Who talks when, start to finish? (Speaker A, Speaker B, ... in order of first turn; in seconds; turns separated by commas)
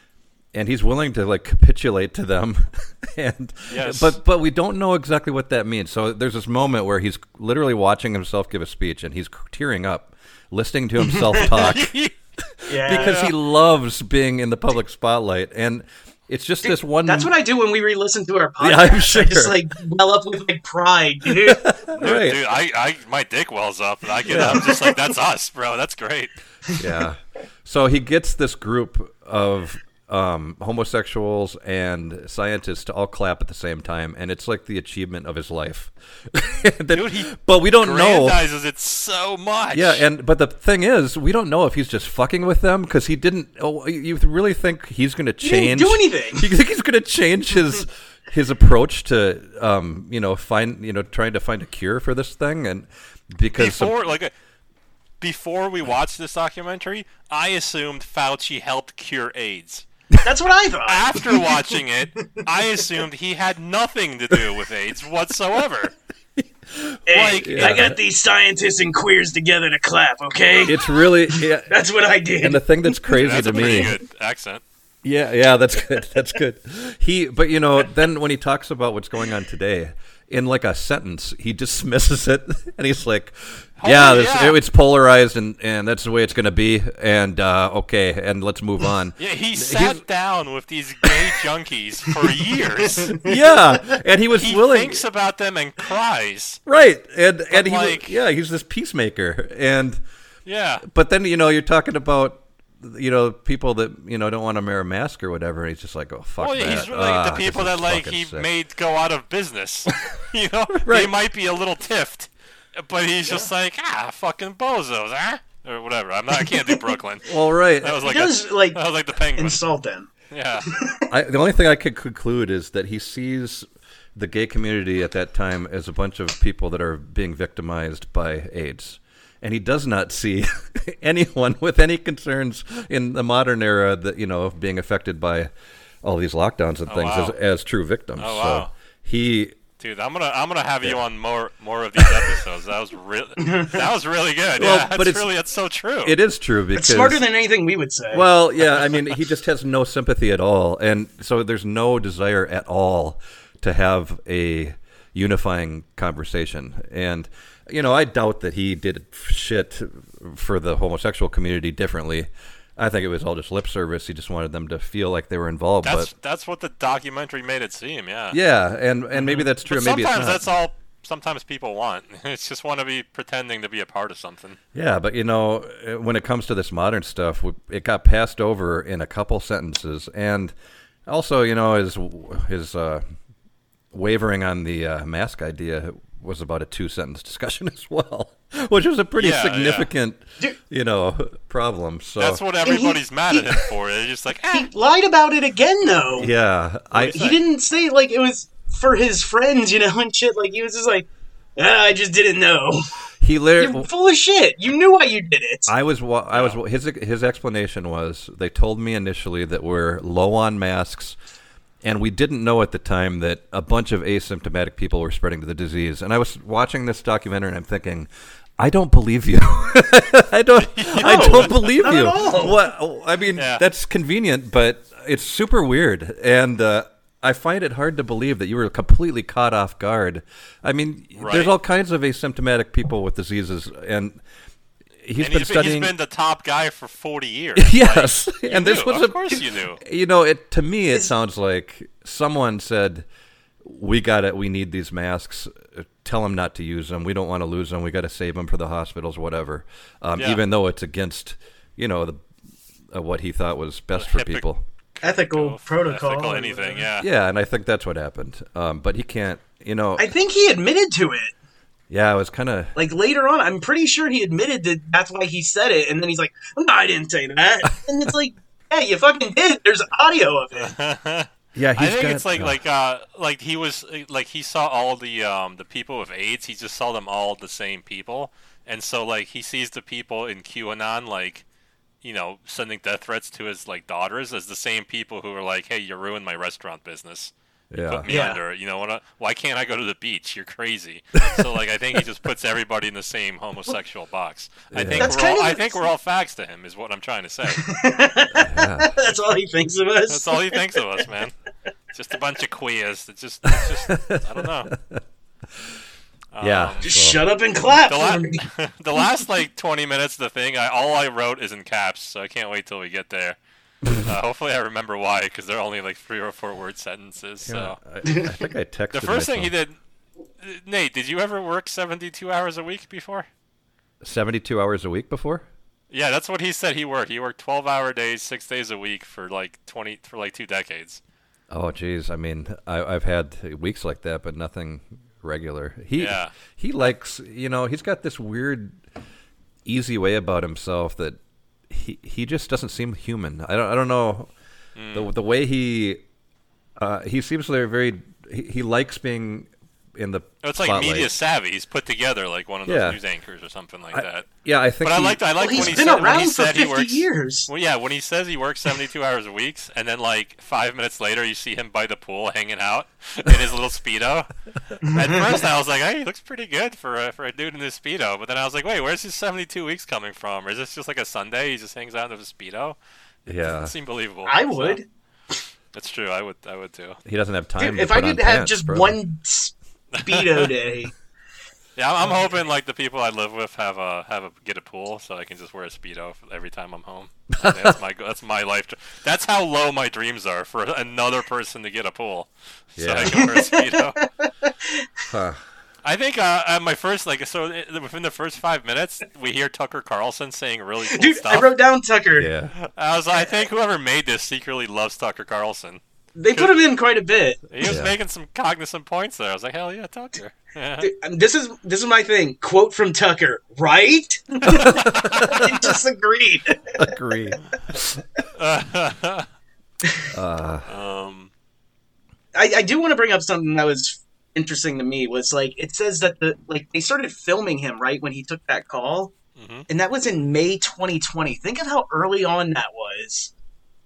Speaker A: 0.5-11.9, Speaker B: 3.7-4.2, Speaker C: 11.0-11.7, Speaker B: 11.5-12.1, Speaker A: 12.5-17.3, Speaker C: 12.7-13.2, Speaker B: 12.9-13.3, Speaker C: 16.6-21.7, Speaker A: 18.6-19.6, Speaker A: 21.3-22.4, Speaker B: 21.9-26.3, Speaker A: 24.2-24.7, Speaker C: 24.3-25.0, Speaker A: 26.8-38.4, Speaker B: 36.9-40.0, Speaker A: 39.7-53.9, Speaker C: 45.4-46.5, Speaker B: 53.5-54.3, Speaker B: 55.2-59.9, Speaker C: 60.2-62.4, Speaker B: 60.9-65.9, Speaker A: 66.7-68.0, Speaker C: 67.1-73.1, Speaker B: 67.1-67.9, Speaker A: 70.6-71.7, Speaker A: 72.4-73.9, Speaker B: 73.1-74.6, Speaker A: 75.0-90.0, Speaker B: 83.8-84.6, Speaker B: 89.2-93.1, Speaker C: 92.8-93.4, Speaker A: 93.1-95.0, Speaker B: 94.3-96.6, Speaker A: 96.7-100.0, Speaker B: 97.5-98.2, Speaker B: 100.5-100.8, Speaker A: 100.8-108.5, Speaker B: 106.4-119.6, Speaker A: 110.7-111.1, Speaker A: 117.2-118.1, Speaker C: 118.0-118.8, Speaker C: 119.3-120.1, Speaker B: 120.3-120.7, Speaker C: 120.7-121.1, Speaker A: 121.1-135.5, Speaker A: 136.0-139.6, Speaker B: 136.9-137.3, Speaker B: 138.2-138.7, Speaker B: 139.8-146.2, Speaker C: 143.4-143.7, Speaker A: 144.6-145.3, Speaker A: 146.0-147.2, Speaker C: 146.7-148.2, Speaker A: 148.1-166.1, Speaker B: 165.8-168.4, Speaker A: 168.3-170.4, Speaker B: 169.1-174.6, Speaker A: 174.7-180.5, Speaker A: 181.1-183.0, Speaker A: 183.9-192.4, Speaker B: 189.2-189.9, Speaker B: 192.2-194.7, Speaker C: 192.6-193.7, Speaker C: 194.5-196.3, Speaker A: 196.1-197.4, Speaker C: 196.9-202.8, Speaker A: 203.2-203.9, Speaker C: 203.6-205.7, Speaker A: 205.7-211.2, Speaker B: 206.3-206.6, Speaker A: 211.8-234.2, Speaker B: 220.6-222.0, Speaker C: 221.0-222.6, Speaker B: 223.3-223.6, Speaker B: 231.2-231.5, Speaker A: 235.0-235.9, Speaker B: 235.2-239.8, Speaker A: 237.6-243.1, Speaker A: 243.6-252.2, Speaker B: 250.2-250.4, Speaker A: 252.9-254.6, Speaker B: 253.9-254.4, Speaker B: 255.0-257.1, Speaker C: 255.0-256.9, Speaker A: 257.0-260.1, Speaker C: 260.0-261.3, Speaker A: 261.9-262.8, Speaker C: 262.7-270.7, Speaker B: 270.6-281.4, Speaker A: 271.5-272.6, Speaker B: 282.0-297.7, Speaker A: 287.7-288.1, Speaker C: 288.1-288.4, Speaker A: 294.7-295.1, Speaker C: 294.9-295.8, Speaker C: 297.6-300.8, Speaker A: 298.3-298.9, Speaker B: 300.1-301.3, Speaker B: 301.9-304.7, Speaker A: 303.9-305.0, Speaker B: 306.3-306.9, Speaker A: 306.4-307.2, Speaker C: 306.8-308.4, Speaker B: 307.8-317.8, Speaker A: 317.4-319.5, Speaker C: 318.0-318.3, Speaker B: 318.9-319.8, Speaker B: 320.4-323.3, Speaker A: 324.0-325.4, Speaker B: 325.9-331.0, Speaker A: 331.5-338.8, Speaker B: 335.9-336.3, Speaker A: 339.6-344.3, Speaker B: 344.8-345.1, Speaker A: 344.9-346.0, Speaker A: 346.8-351.1, Speaker B: 350.4-354.3, Speaker A: 352.6-353.0, Speaker A: 353.9-355.8, Speaker B: 354.8-364.3, Speaker C: 355.4-357.5, Speaker C: 364.8-365.4, Speaker B: 364.9-372.8, Speaker A: 373.2-373.7, Speaker B: 373.4-374.8, Speaker C: 374.2-374.8, Speaker B: 375.7-377.0, Speaker A: 377.0-379.0, Speaker C: 377.6-380.9, Speaker B: 379.9-380.5, Speaker B: 381.8-394.0, Speaker A: 387.3-387.7, Speaker A: 392.8-393.3, Speaker C: 393.0-394.9, Speaker A: 395.1-395.4, Speaker B: 395.8-401.5, Speaker C: 400.9-402.3, Speaker A: 402.2-402.5, Speaker B: 402.5-405.8, Speaker C: 406.1-407.4, Speaker B: 406.3-406.6, Speaker B: 407.5-410.9, Speaker A: 407.6-407.9, Speaker C: 410.8-416.9, Speaker A: 414.4-415.6, Speaker B: 414.9-415.2, Speaker A: 416.8-418.0, Speaker B: 418.3-419.3, Speaker A: 420.1-420.7, Speaker B: 420.7-421.3, Speaker C: 422.3-429.1, Speaker B: 429.4-429.7, Speaker C: 429.7-433.3